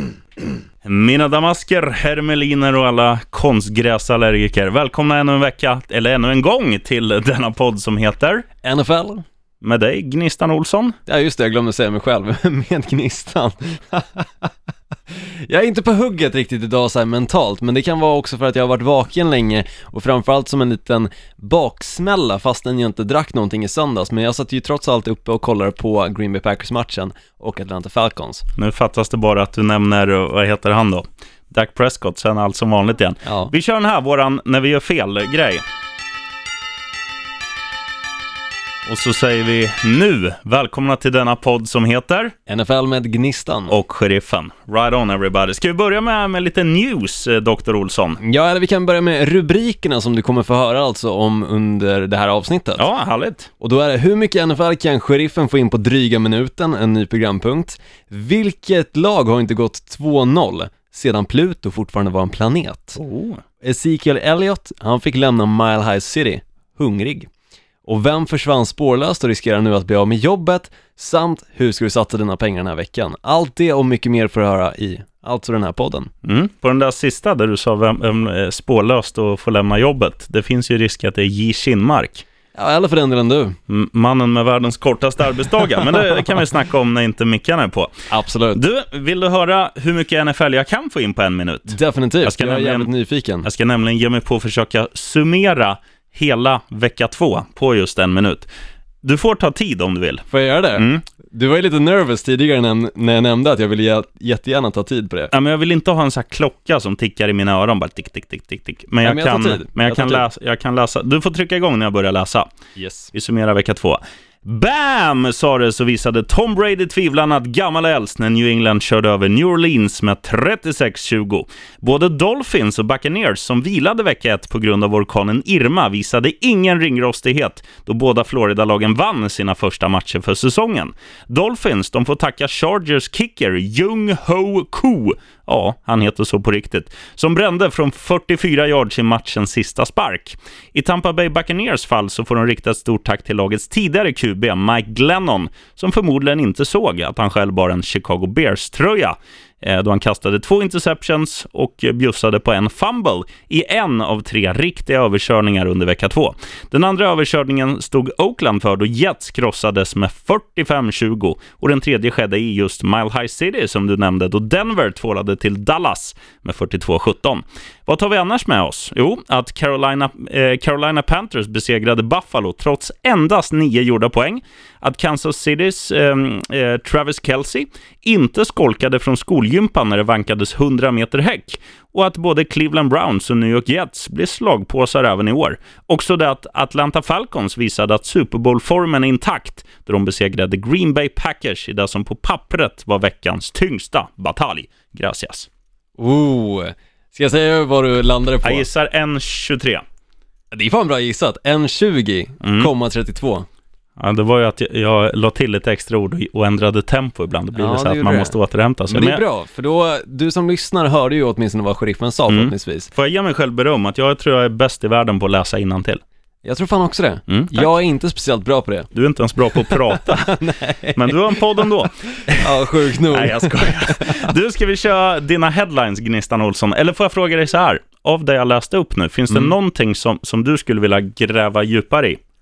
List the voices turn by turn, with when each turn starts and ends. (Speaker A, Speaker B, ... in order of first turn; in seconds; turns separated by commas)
Speaker A: 0.8-8.5, Speaker B: 8.6-9.2, Speaker A: 9.6-11.0, Speaker B: 11.1-14.5, Speaker B: 15.1-28.4, Speaker A: 28.6-35.6, Speaker B: 33.2-33.5, Speaker A: 38.9-42.3, Speaker B: 42.5-43.7, Speaker A: 43.7-48.2, Speaker B: 48.2-52.8, Speaker A: 52.8-53.5, Speaker B: 53.6-63.0, Speaker A: 63.0-63.4, Speaker B: 63.6-67.3, Speaker B: 67.8-76.1, Speaker A: 76.2-82.2, Speaker B: 82.5-83.6, Speaker A: 83.7-87.9, Speaker B: 88.1-88.6, Speaker A: 88.5-92.9, Speaker B: 91.7-93.5, Speaker A: 93.4-98.5, Speaker A: 99.0-101.0, Speaker B: 100.3-105.3, Speaker A: 105.3-112.5, Speaker B: 109.0-110.2, Speaker B: 112.8-113.1, Speaker A: 113.1-195.5, Speaker B: 196.0-198.7, Speaker A: 198.4-199.8, Speaker B: 200.5-203.5, Speaker A: 202.4-202.7, Speaker A: 204.0-209.2, Speaker B: 207.5-208.3, Speaker B: 208.9-212.9, Speaker A: 212.3-216.0, Speaker B: 216.4-218.9, Speaker A: 217.3-217.7, Speaker A: 218.9-220.4, Speaker B: 219.5-221.3, Speaker A: 220.9-222.5, Speaker B: 222.3-224.3, Speaker A: 223.1-232.2